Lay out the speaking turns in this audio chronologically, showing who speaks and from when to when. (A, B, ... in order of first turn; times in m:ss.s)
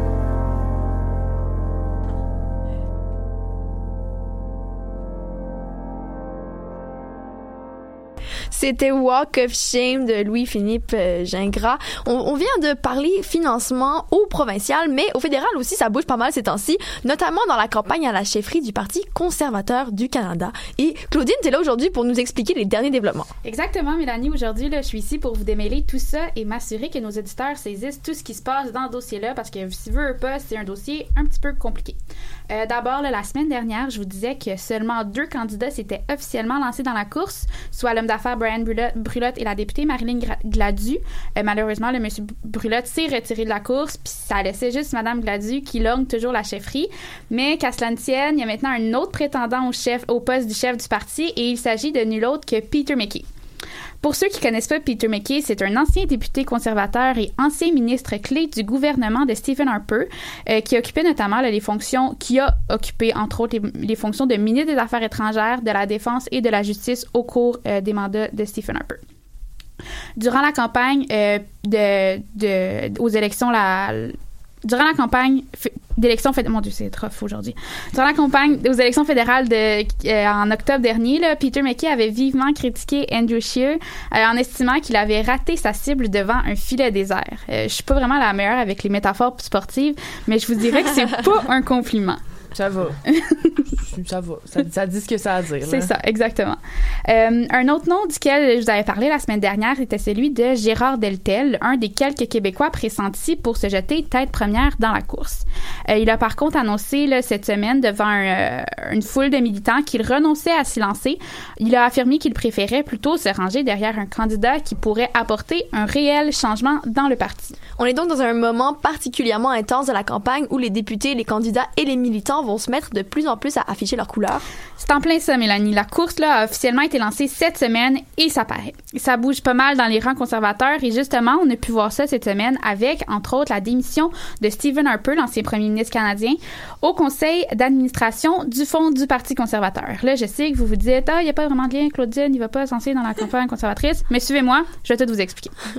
0:08.5-0:23.3 A
0:23.4-0:32.0 B
0:32.5-0:53.3 B
0:54.0-1:09.0 B
1:10.2-1:32.2 B
1:32.5-1:33.0 C
1:33.2-1:33.6 B
1:33.9-1:35.9 C
1:35.6-1:57.6 B
1:57.8-2:04.4 A
2:04.8-2:25.5 B